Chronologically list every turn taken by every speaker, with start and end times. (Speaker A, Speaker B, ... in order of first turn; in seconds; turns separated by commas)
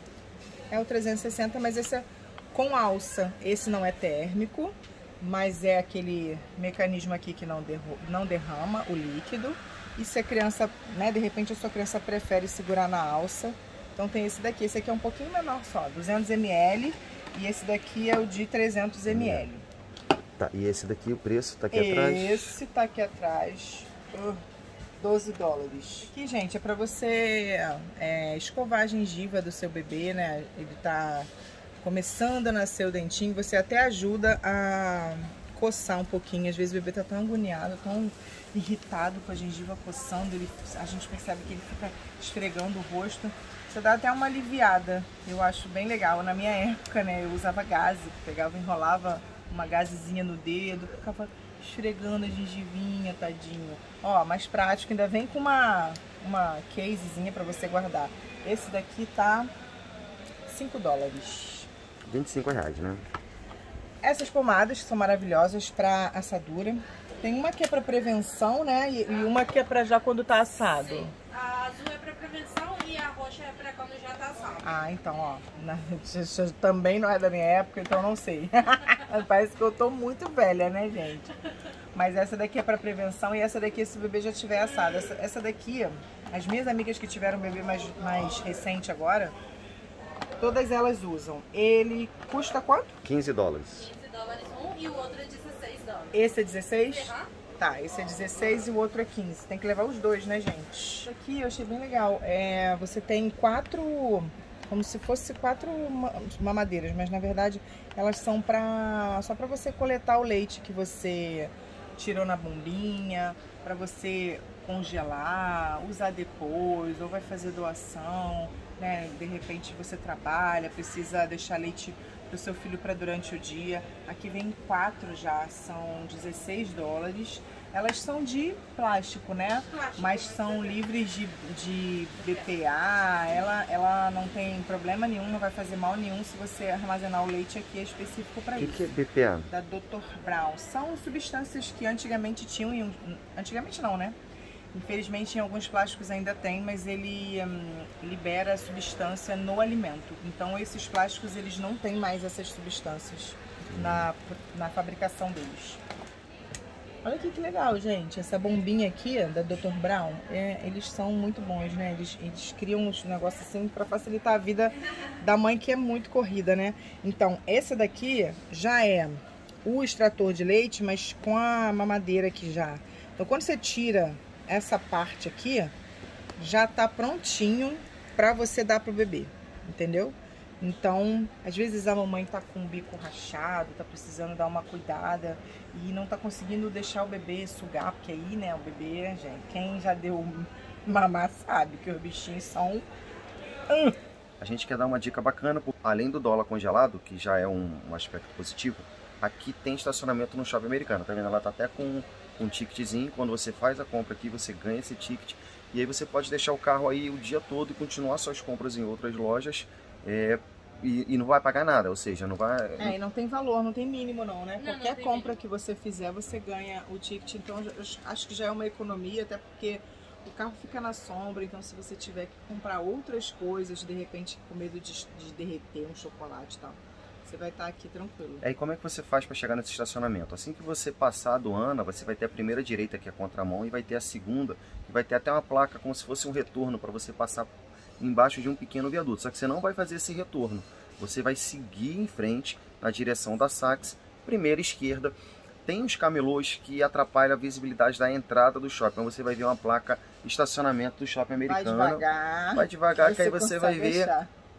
Speaker A: 0.7-19.6, Speaker B: 19.1-19.5, Speaker B: 20.4-22.6, Speaker A: 21.7-24.4, Speaker A: 25.0-31.3, Speaker A: 31.8-59.5, Speaker A: 60.5-61.7, Speaker B: 62.0-63.0, Speaker A: 64.0-71.1, Speaker C: 71.1-74.6, Speaker A: 74.6-81.3, Speaker A: 81.9-89.3, Speaker A: 90.4-92.9, Speaker B: 93.0-93.9, Speaker C: 93.8-96.2, Speaker A: 96.1-138.9, Speaker C: 96.9-97.3, Speaker C: 129.7-130.7, Speaker B: 138.6-139.5, Speaker A: 139.5-144.2, Speaker A: 144.7-155.8, Speaker B: 153.7-154.1, Speaker A: 157.0-175.7, Speaker A: 176.4-192.8, Speaker A: 193.7-193.9, Speaker B: 194.4-213.0, Speaker A: 212.8-228.4, Speaker C: 214.6-215.3, Speaker B: 228.4-254.1, Speaker A: 251.4-254.3